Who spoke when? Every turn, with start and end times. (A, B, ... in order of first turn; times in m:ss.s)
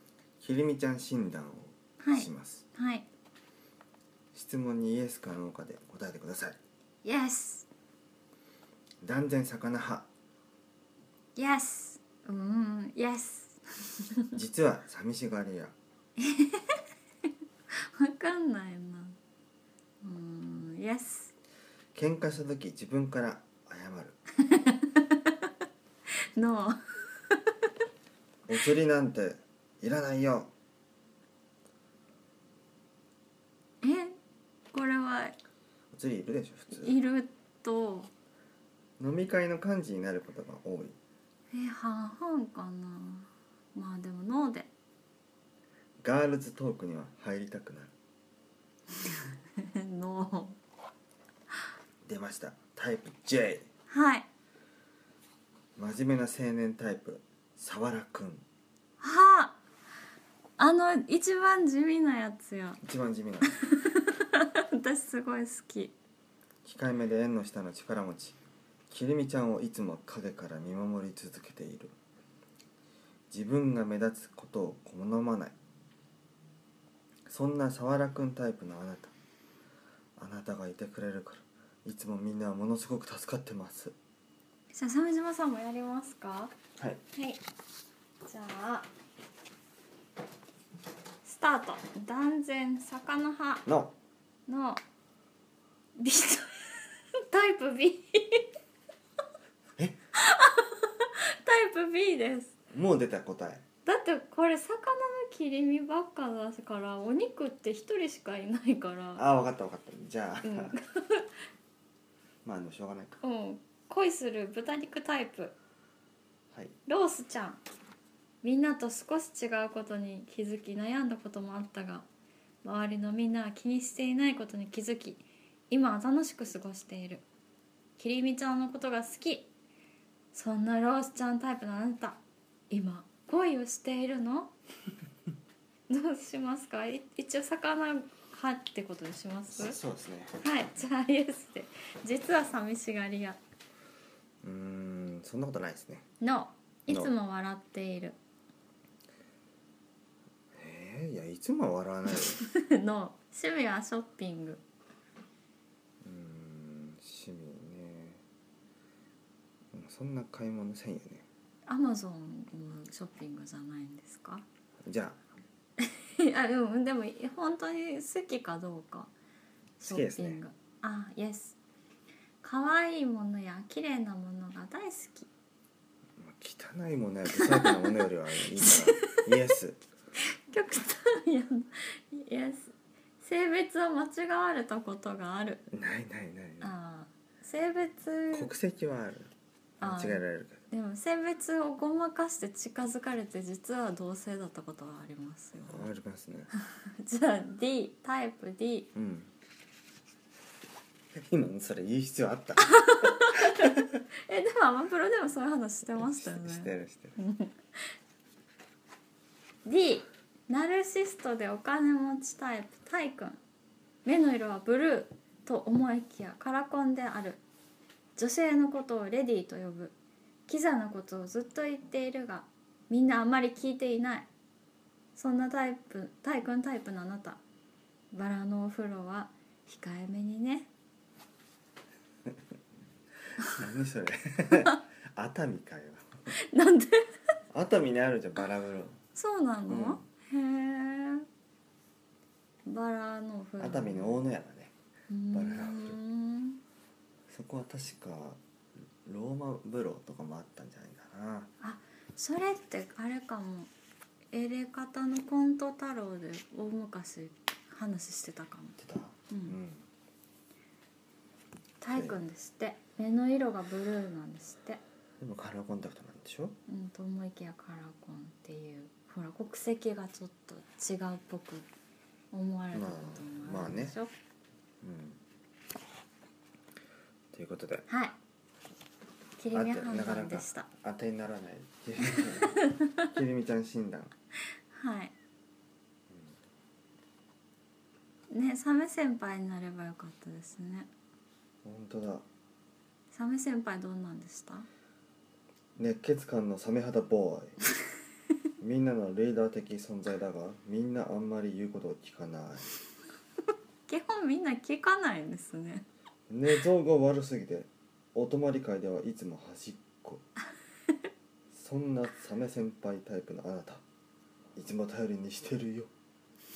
0:00.4-0:02.6 A
0:02.0-0:03.0 B
0:04.3-0:06.6 A
0:07.0-0:07.7 B
0:09.0-0:10.1 A
0:11.4-0:14.3 B
0:14.3-0:15.7 A
0:16.2-0:16.8 B
0:17.7-0:19.2 B
0:20.0-0:21.3 B
0:21.9-0:24.2 A
0:24.4-0:25.5 B
0:26.3-0:27.7 B
0:28.5-0:30.5 A
0:33.8-0:34.2 B
0:34.7-0:35.4 B
0:35.9-0:37.0 A
0:36.7-0:38.1 B
0:39.0-0:41.0 A
0:41.5-0:44.7 B
0:46.0-0:47.9 A
0:49.0-0:50.6 B
0:52.0-0:53.7 A
0:53.9-0:54.3 B
0:55.8-0:58.4 A
0:59.0-0:59.6 B
1:00.6-1:02.8 B
1:02.8-1:03.5 A
1:03.4-1:05.9 B
1:06.6-1:08.4 A
1:08.9-1:11.9 A
1:13.3-1:15.5 A
1:17.3-1:19.1 A
1:20.2-1:24.0 A
1:24.7-1:26.5 B
1:27.1-1:27.4 B
1:28.2-1:28.9 B
1:31.2-1:33.6 B
1:33.6-1:33.9 A
1:34.5-1:34.8 B
1:36.0-1:38.5 B
1:40.1-1:42.5 B
1:42.7-1:43.6 A
1:43.8-1:49.2 B
1:49.2-1:50.7 A
1:50.4-1:51.4 B
1:52.4-1:53.2 A
1:53.2-1:55.5 B
1:56.9-1:57.6 B
1:58.4-2:02.0 B
2:02.6-2:07.2 B
2:08.0-2:09.5 B
2:10.3-2:12.2 B
2:12.7-2:14.5 B
2:15.9-2:19.8 B
2:19.5-2:20.4 A
2:20.4-2:23.4 B
2:24.4-2:26.0 A
2:26.2-2:28.2 B
2:26.9-2:27.1 A
2:30.5-2:32.4 A
2:32.4-2:34.6 B
2:36.0-2:38.2 A
2:39.7-2:41.2 A
2:41.7-2:44.4 B
2:44.8-2:45.2 A
2:45.8-2:49.1 B
2:49.8-2:51.6 B
2:49.9-2:50.4 A
2:52.4-2:55.3 B
2:56.2-2:59.8 A
2:57.4-2:58.0 B
2:58.6-2:59.2 B
3:00.5-3:05.7 B
3:05.7-3:06.7 A
3:06.6-3:08.5 B
3:08.3-3:10.6 A
3:09.8-3:15.9 B
3:15.7-3:16.5 A
3:16.5-3:18.9 B
3:18.9-3:19.3 A
3:21.1-3:23.7 A
3:22.7-3:28.0 B
3:25.9-3:27.2 A
3:29.6-3:33.4 B
3:34.0-3:37.4 B
3:38.2-3:39.9 B
3:40.5-3:44.3 B
3:45.2-3:47.4 B
3:48.1-3:50.7 B
3:53.4-3:56.3 A
3:56.3-3:57.2 B
3:57.5-3:59.0 A
3:59.2-4:01.3 B
3:59.7-4:00.0 A
4:02.6-4:04.2 B
4:03.6-4:04.7 A
4:05.1-4:06.6 B
4:05.3-4:06.0 A
4:07.3-4:08.4 A
4:09.0-4:11.5 A
4:11.6-4:13.7 B
4:14.3-4:18.8 B
4:18.8-4:19.9 A
4:19.3-4:19.6 B
4:21.8-4:24.8 B
4:21.9-4:22.2 A
4:25.2-4:26.6 A
4:26.7-4:31.7 B
4:32.3-4:34.1 B
4:32.7-4:34.0 A
4:34.8-4:35.2 A
4:37.3-4:37.9 A
4:37.9-4:38.2 B
4:39.4-4:40.7 B
4:39.5-4:44.1 A
4:42.5-4:42.9 B
4:44.7-4:45.1 B
4:46.1-4:46.4 A
4:48.3-4:50.9 B
4:51.6-4:52.2 A
4:53.1-4:54.7 B
4:55.8-4:57.6 A
4:58.6-5:02.7 A
5:03.9-5:05.8 B
5:06.3-5:10.2 A
5:11.5-5:13.8 A
5:14.6-5:15.9 A